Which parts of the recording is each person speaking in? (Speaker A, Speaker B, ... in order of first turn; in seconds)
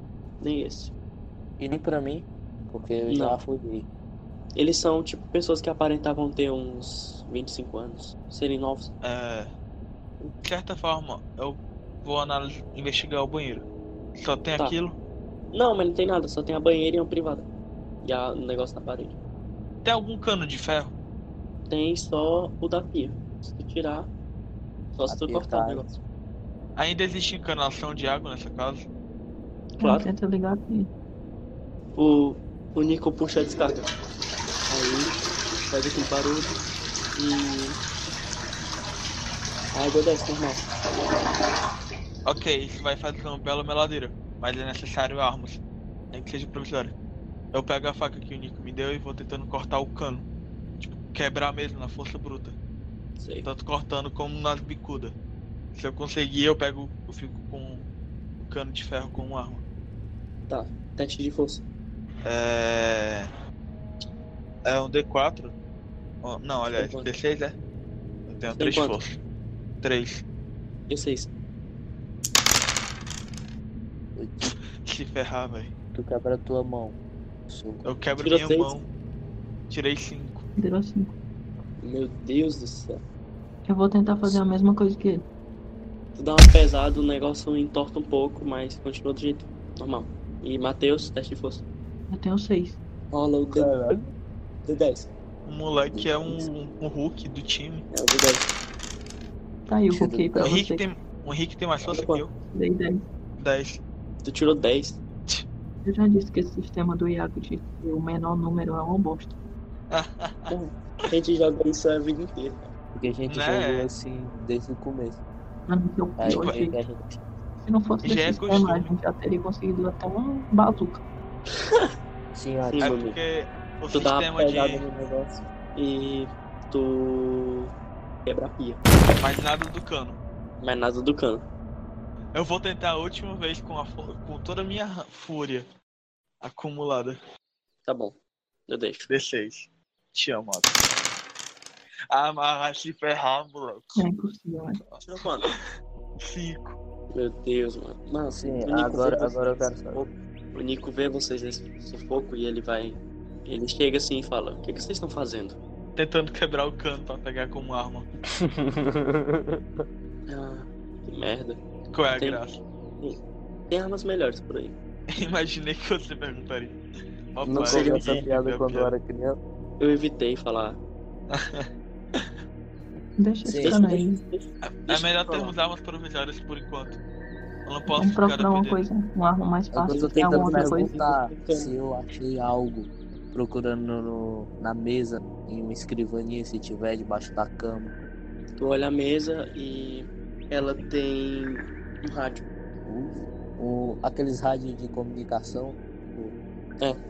Speaker A: 0.4-0.9, 3.1-3.4, 4.5-8.9, 15.5-17.4, 18.0-19.2, 21.7-24.1, 24.9-26.0, 29.8-30.1, 31.9-33.9, 34.7-35.1, 35.7-36.6, 37.1-37.8, 39.7-40.6, 53.2-53.5, 60.5-61.6, 66.8-67.1, 68.6-69.0, 70.9-71.3, 78.2-78.7, 81.8-83.0, 86.1-91.6, 93.1-93.8, 94.6-95.1, 97.9-98.5, 101.8-102.3, 104.2-105.0, 110.5-112.6, 121.5-121.9, 122.7-123.2, 123.9-127.7, 128.2-128.8, 130.6-131.4, 137.8-139.1, 145.0-145.5, 147.1-155.6, 160.3-161.6, 162.2-162.4, 163.7-164.8, 167.5-168.3, 169.8-170.8, 173.6-175.5, 179.9-181.7, 188.6-192.4
Speaker B: 1.6-3.9, 25.1-25.8, 74.2-74.5, 75.9-77.8, 93.5-94.1, 95.9-96.5, 99.9-100.6, 112.9-115.2, 116.2-117.2, 122.3-123.0, 148.3-150.0, 158.4-159.8, 167.4-169.4, 173.4-173.8, 179.7-187.9, 192.8-196.3
Speaker C: 9.0-9.5, 10.4-15.0, 19.8-20.9, 26.8-28.9, 42.2-46.9, 47.5-50.2, 50.8-52.5, 53.4-55.1, 55.7-57.9, 58.4-59.6, 62.2-63.3, 64.7-65.5, 66.2-67.6, 68.3-69.2, 69.8-70.2, 74.5-75.7, 77.8-78.9, 79.7-80.4, 95.4-97.8, 100.4-102.3, 103.4-103.8, 109.9-110.5, 113.3-113.9, 116.3-116.6, 118.0-118.9, 122.8-124.8, 129.2-130.2, 132.3-135.7, 136.4-137.2, 139.1-140.8, 142.1-144.0, 144.9-145.6, 146.2-146.8, 155.9-158.1, 161.9-162.6, 165.1-166.8, 167.3-168.9, 171.3-172.3, 174.6-177.0, 177.6-178.8
Speaker D: 29.8-30.9, 80.6-81.1, 83.7-85.2, 92.1-92.8, 99.7-100.8, 102.5-103.0, 105.8-109.3, 115.7-116.8, 117.6-121.0, 143.9-144.8, 173.2-174.2, 177.9-180.9